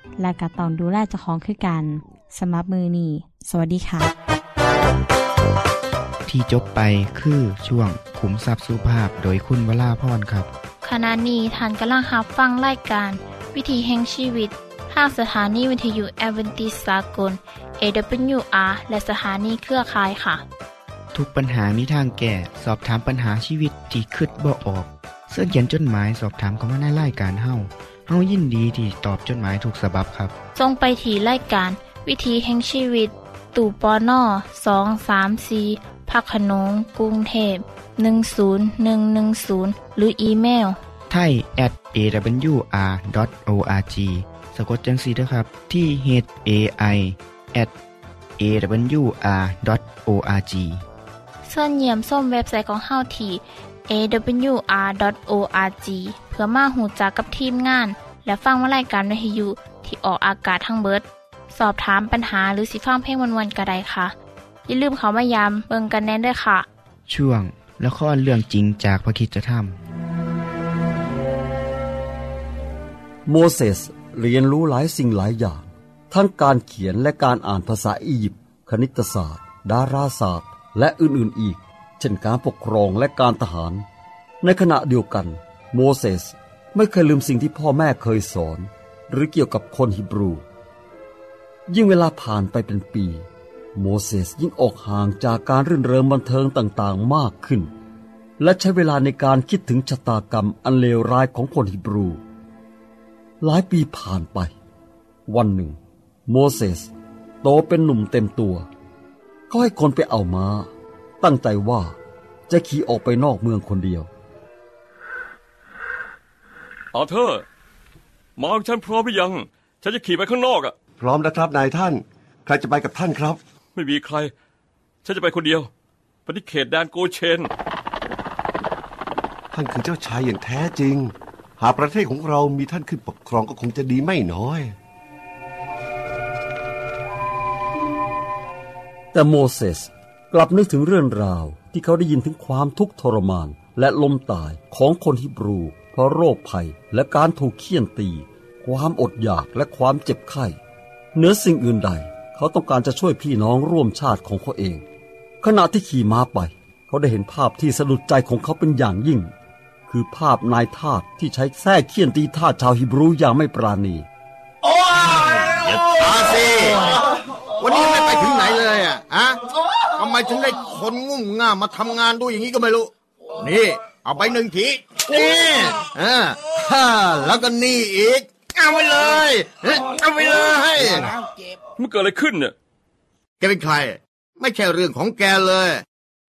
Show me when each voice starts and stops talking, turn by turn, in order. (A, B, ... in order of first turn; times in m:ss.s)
0:00.2-0:04.1 A
0:06.3-0:10.5 B
0:10.8-0:20.4 C
0:21.1-0:30.3 B
0:30.6-0:40.8 C
0:41.1-0:47.7 B
0:48.4-0:50.8 B
0:51.4-1:04.2 C
1:04.7-1:06.7 C
1:07.1-1:09.8 B
1:13.3-1:23.8 D
1:24.4-1:30.4 D
1:31.7-1:37.7 D
1:38.4-1:42.2 D
1:43.4-1:44.5 D
1:45.3-1:46.9 D
1:47.4-1:48.7 D
1:49.5-1:50.7 D
1:51.2-1:52.0 D
1:52.5-1:54.1 D
1:56.9-1:57.4 E
1:58.4-2:00.8 E
2:01.0-2:03.4 F
2:03.8-2:04.3 E
2:05.0-2:05.7 E
2:06.3-2:07.5 E
2:09.5-2:14.7 F
2:19.1-2:30.6 D
2:31.2-2:34.8 D
2:35.4-2:39.3 D
2:39.9-2:44.1 D
2:45.0-2:47.0 G
2:47.6-2:49.4 G
2:50.0-3:01.1 G
3:01.8-3:02.5 E
3:03.4-3:05.8 G